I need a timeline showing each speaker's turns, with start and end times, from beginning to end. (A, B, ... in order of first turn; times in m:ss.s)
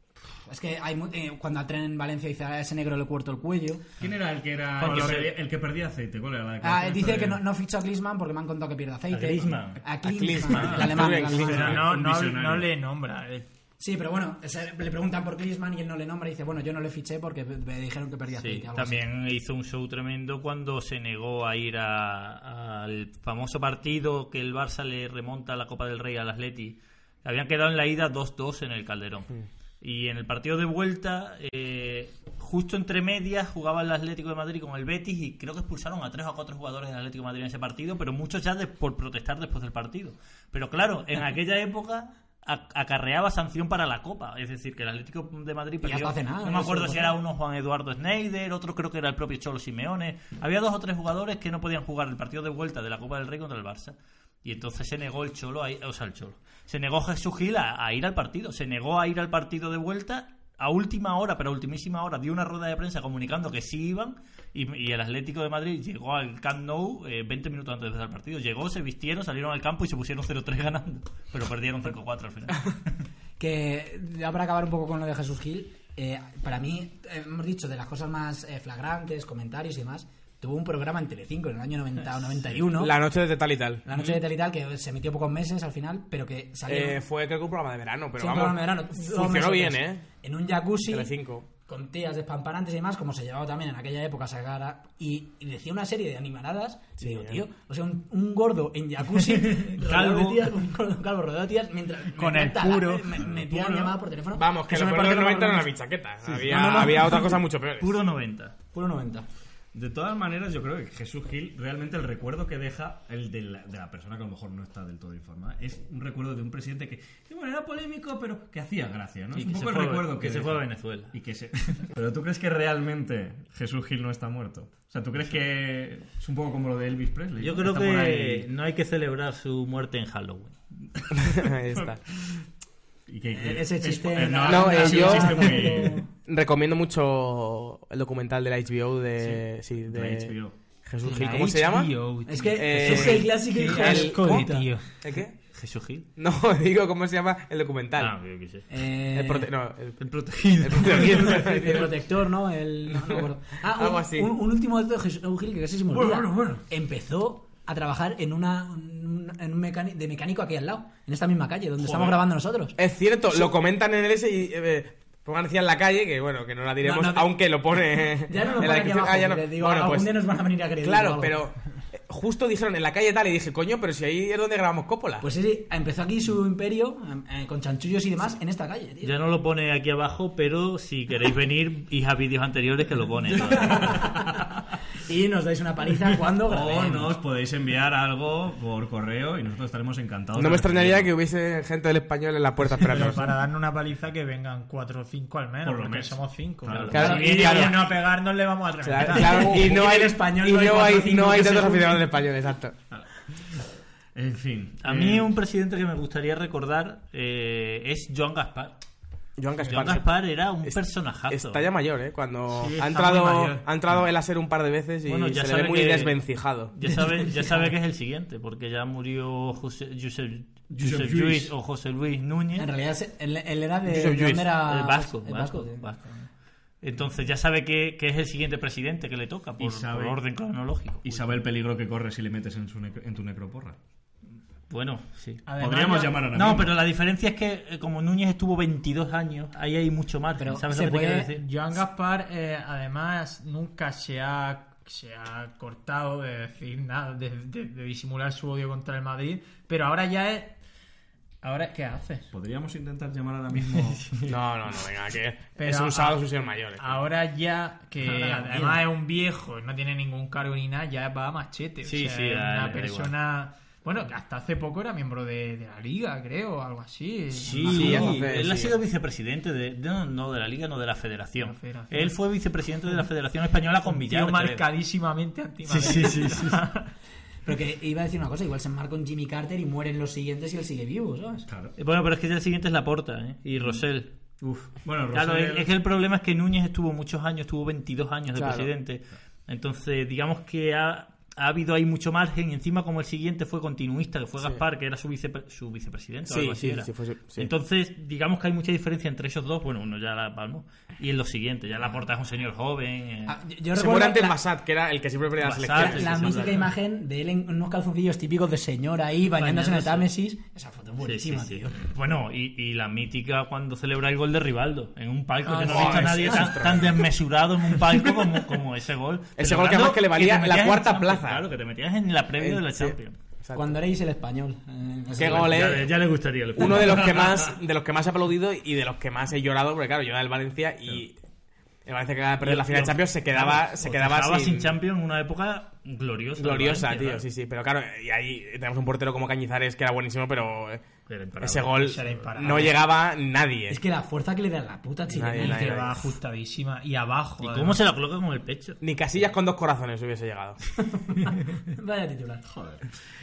0:00.4-0:03.9 A
0:04.0-0:07.4 B
0:04.8-0:05.3 C
0:06.6-0:11.8 A
0:09.1-0:09.8 C
0:10.0-0:11.8 D
0:10.5-0:11.0 C
0:11.2-0:12.7 B
0:11.3-0:13.5 E
0:13.8-0:19.0 A
0:18.4-1:12.8 C
0:45.8-0:47.2 A
1:13.4-1:22.9 A
1:22.7-1:23.8 D
1:23.8-1:27.0 A
1:26.7-1:30.0 D
1:28.2-1:45.7 A
1:30.9-1:31.5 D
1:37.0-1:37.4 D
1:39.6-1:40.4 C
1:42.2-1:43.2 E
1:43.3-1:43.9 B
1:44.4-1:48.0 D
1:46.3-1:47.4 A
1:47.8-1:48.6 C
1:48.7-1:49.3 A
1:49.7-2:08.5 B
1:59.3-2:01.2 C
2:07.4-2:10.6 C
2:11.2-2:12.0 D
2:11.8-2:12.4 B
2:13.1-2:16.0 B
2:13.3-2:16.1 A
2:14.5-2:15.5 D
2:14.7-2:15.7 E
2:16.2-2:22.0 D
2:19.8-2:20.6 B
2:21.0-2:21.4 A
2:21.0-2:24.9 E
2:22.2-2:24.7 A
2:22.5-2:24.5 D
2:25.0-2:25.4 D
2:25.5-2:26.1 C
2:26.2-2:28.1 D
2:28.0-2:28.7 C
2:28.7-2:29.5 A
2:29.1-2:30.1 D
2:30.0-2:31.6 C
2:30.6-2:31.9 D
2:31.0-2:42.8 A
2:33.7-2:34.3 D
2:36.0-2:36.3 D
2:42.8-2:50.1 D
2:46.8-2:47.3 A
2:48.3-2:51.4 A
2:50.8-2:55.3 D
2:55.2-2:59.1 A
2:59.0-3:04.1 C
3:03.6-3:04.0 A
3:03.7-3:04.4 B
3:05.0-3:07.2 A
3:06.4-3:11.1 B
3:10.4-3:13.3 D
3:12.8-3:19.7 E
3:15.6-3:17.3 B
3:16.7-3:17.7 C
3:16.9-3:17.9 D
3:17.0-3:17.7 A
3:18.8-3:22.8 D
3:19.0-3:22.0 A
3:22.9-3:23.6 B
3:24.2-3:25.3 B
3:24.8-3:28.8 C
3:29.4-3:30.1 D
3:29.6-3:31.7 C
3:30.6-3:36.7 D
3:32.5-3:33.7 E
3:35.1-3:42.7 C
3:40.7-3:41.5 B
3:42.6-3:45.8 A
3:43.9-3:44.5 D
3:44.6-3:51.4 C
3:49.6-3:50.2 B
3:51.0-3:53.8 B
3:54.7-3:55.4 C
3:55.5-3:56.3 E
3:55.6-3:56.8 B
3:56.3-4:01.4 C
4:00.4-4:01.3 A
4:01.4-4:10.6 E
4:11.4-4:12.3 E
4:12.3-4:14.3 B
4:14.3-4:17.0 D
4:15.6-4:16.2 E
4:16.8-4:28.2 E
4:18.0-4:18.8 A
4:21.8-4:23.1 C
4:27.4-4:34.7 C
4:27.6-4:28.0 A
4:27.6-4:28.8 D
4:31.4-4:32.2 E
4:33.9-4:36.9 E
4:35.7-4:36.6 C
4:37.4-4:41.4 A
4:41.5-4:41.8 B
4:41.8-4:44.2 C
4:44.4-4:45.7 B
4:45.1-5:03.4 C
4:48.3-4:48.7 D
4:56.3-4:57.5 D
5:03.3-5:04.4 A
5:03.8-5:06.6 D
5:05.4-5:06.7 C
5:05.7-5:11.8 A
5:09.4-5:10.1 C
5:11.0-5:23.2 C
5:15.5-5:16.6 A
5:15.6-5:17.1 D
5:19.4-5:21.5 D
5:22.4-5:23.8 D
5:23.6-5:25.9 A
5:25.2-5:25.9 D
5:25.2-5:27.5 C
5:26.6-5:31.2 D
5:31.9-5:34.7 D
5:32.4-5:37.2 C
5:36.4-5:40.8 D
5:41.1-5:42.7 C
5:41.4-5:43.8 D
5:41.8-5:42.8 E
5:43.7-5:45.9 A
5:45.1-5:46.0 D
5:45.4-5:47.8 E
5:47.4-5:48.8 C
5:48.8-5:50.7 D
5:51.0-5:52.4 A
5:52.5-5:52.9 B